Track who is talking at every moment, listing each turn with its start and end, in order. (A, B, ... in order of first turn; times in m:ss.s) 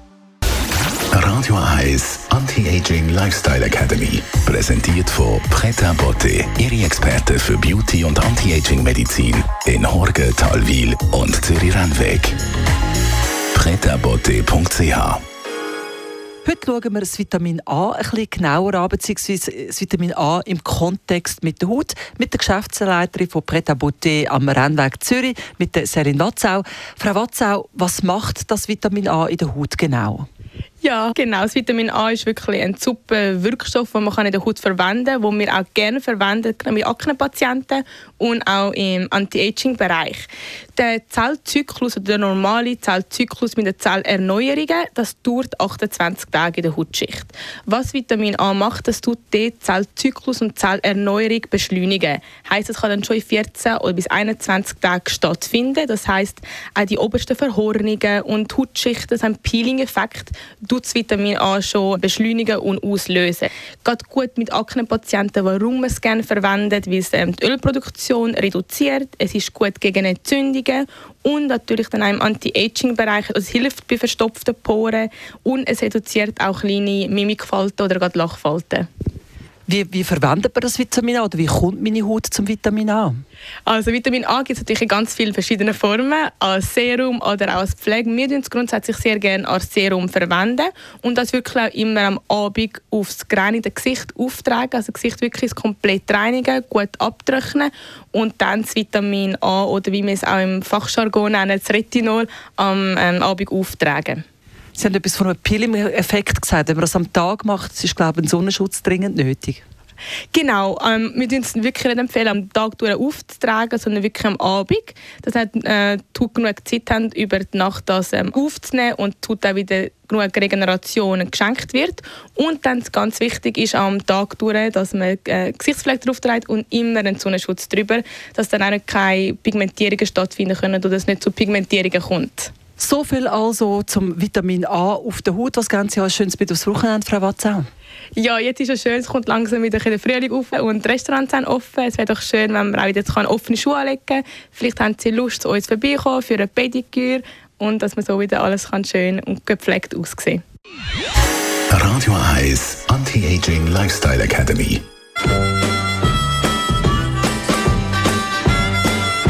0:01.1-0:12.4 A
0:13.5-0:15.2 A
0:16.4-0:30.3 B
0:30.8-1:18.9 C
1:19.7-1:23.2 B
1:23.6-1:44.2 C
1:44.8-1:49.6 B
1:50.3-2:12.5 C
2:12.8-2:17.7 B
2:18.2-2:30.4 C
2:31.7-2:34.8 A